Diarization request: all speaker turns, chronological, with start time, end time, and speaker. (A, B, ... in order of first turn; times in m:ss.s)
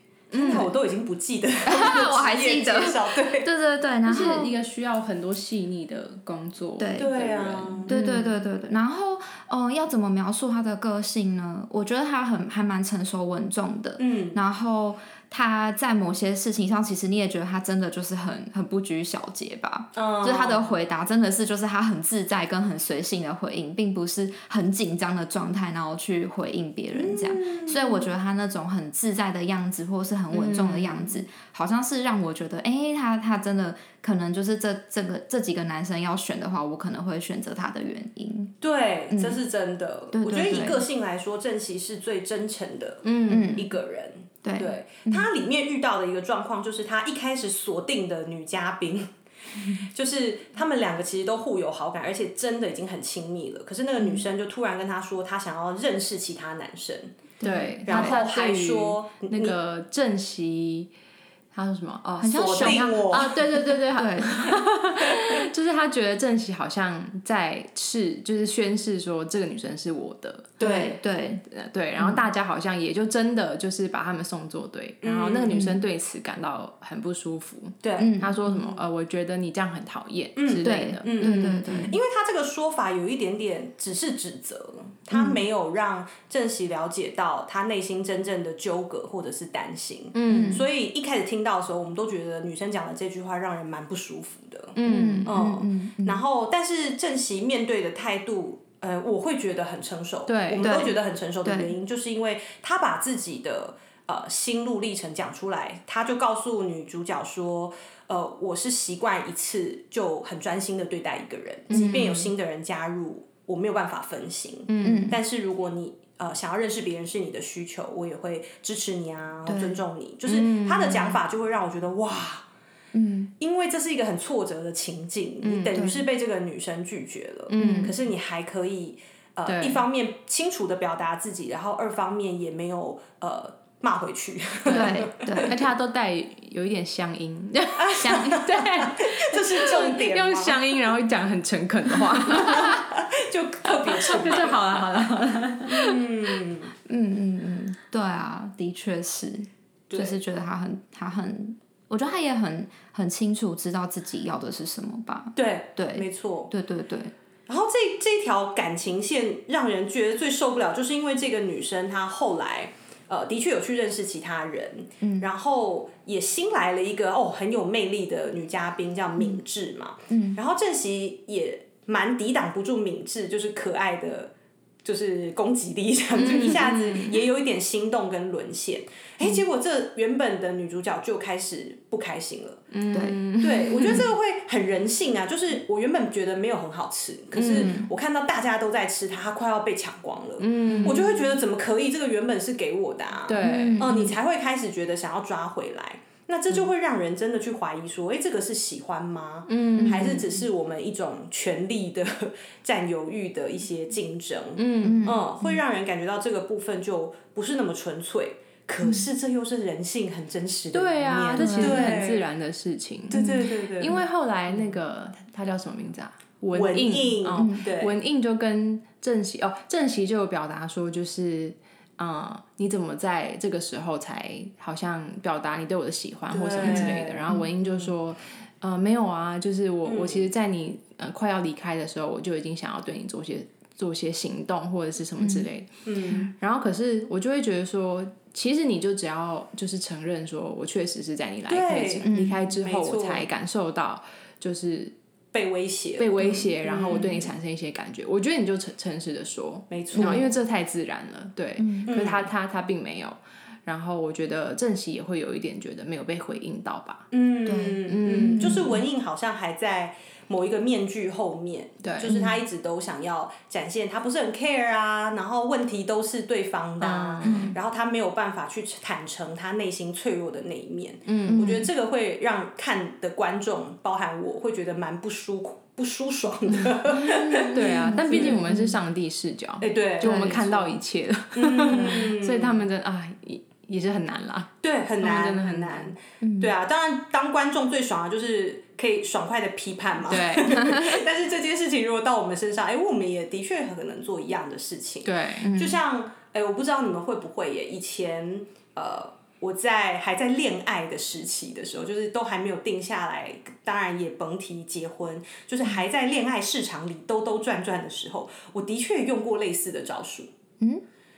0:00.3-0:03.5 A
0:00.3-0:00.7 B
0:01.7-0:04.5 C
0:04.0-0:08.4 B
0:06.8-0:07.2 C
0:07.0-0:08.0 A
0:07.9-0:38.6 C
0:14.0-0:14.4 A
0:20.0-0:20.7 A
0:26.9-0:28.1 A
0:30.4-0:30.8 A
0:30.4-0:30.8 B
0:38.6-0:49.1 A
0:39.1-0:39.4 C
0:40.1-0:40.8 C
0:43.0-0:43.6 B
0:43.3-0:43.7 C
0:44.4-0:45.3 C
0:49.7-0:57.1 A
0:54.0-0:54.2 C
0:57.4-0:58.2 C
0:57.4-1:00.9 B
0:57.8-0:59.6 A
1:01.5-1:10.9 B
1:02.2-1:04.6 C
1:02.3-1:03.3 A
1:10.6-1:11.0 A
1:10.6-1:11.4 C
1:11.5-1:21.9 B
1:12.0-1:12.2 C
1:15.0-1:15.6 A
1:15.5-1:15.8 C
1:17.8-1:18.2 A
1:18.0-1:18.8 C
1:20.4-2:02.5 A
1:20.6-1:22.0 C
1:25.1-1:25.4 C
1:30.1-1:30.6 B
1:30.3-1:30.6 C
1:34.8-1:35.3 B
1:34.8-1:36.2 C
1:40.3-1:40.7 B
1:40.6-1:41.7 C
1:51.7-1:52.3 C
1:51.7-1:52.1 B
1:54.7-1:55.1 B
1:54.8-1:55.2 C
1:59.5-1:59.8 C
2:00.3-2:01.2 B
2:02.9-2:03.3 C
2:03.4-2:15.6 A
2:05.4-2:05.8 B
2:05.8-2:06.1 C
2:07.5-2:08.0 B
2:07.6-2:07.9 C
2:09.5-2:09.8 B
2:14.7-2:15.6 C
2:14.7-2:22.9 B
2:17.8-2:20.6 A
2:18.0-2:18.4 C
2:22.2-2:24.8 A
2:23.8-2:26.0 B
2:25.7-2:26.7 A
2:26.9-2:37.1 C
2:29.9-2:30.2 A
2:35.4-2:36.5 A
2:37.5-2:54.3 A
2:45.0-2:45.3 C
2:50.1-2:50.4 C
2:54.8-3:02.6 A
2:56.2-2:57.2 B
3:02.7-3:04.1 B
3:02.9-3:03.2 C
3:03.4-3:32.3 A
3:07.4-3:07.8 B
3:07.4-3:07.9 C
3:10.4-3:11.1 B
3:10.6-3:11.1 C
3:13.3-3:14.0 B
3:13.4-3:14.1 C
3:19.5-3:20.3 B
3:19.8-3:20.3 C
3:24.6-3:25.2 B
3:24.8-3:25.6 C
3:30.7-3:55.7 B
3:31.4-3:32.0 C
3:33.1-3:34.0 A
3:33.1-3:33.4 C
3:36.5-3:37.9 A
3:37.4-3:37.6 C
3:46.3-3:47.8 A
3:46.6-3:47.5 C
3:49.8-3:50.3 A
3:55.2-3:55.5 C
3:55.9-3:56.3 A
3:56.3-4:04.9 B
4:01.5-4:02.1 A
4:02.0-4:02.4 C
4:02.6-4:03.3 A
4:05.3-4:07.3 A
4:06.0-4:17.1 B
4:09.7-4:10.3 A
4:10.0-4:10.3 C
4:11.6-4:11.9 C
4:11.9-4:12.3 A
4:17.1-4:38.5 A
4:17.5-4:18.8 C
4:17.9-4:18.7 B
4:21.8-4:22.2 B
4:26.8-4:27.5 B
4:27.2-4:27.6 C
4:31.1-4:31.6 B
4:31.3-4:31.7 C
4:37.0-4:38.8 C
4:37.4-4:46.0 B
4:39.6-4:40.7 A
4:40.0-4:40.5 C
4:41.3-4:42.6 A
4:41.7-4:42.1 C
4:44.6-5:10.3 A
4:46.2-4:46.5 C
4:50.1-4:50.9 B
4:55.0-4:55.5 B
4:55.4-4:55.8 C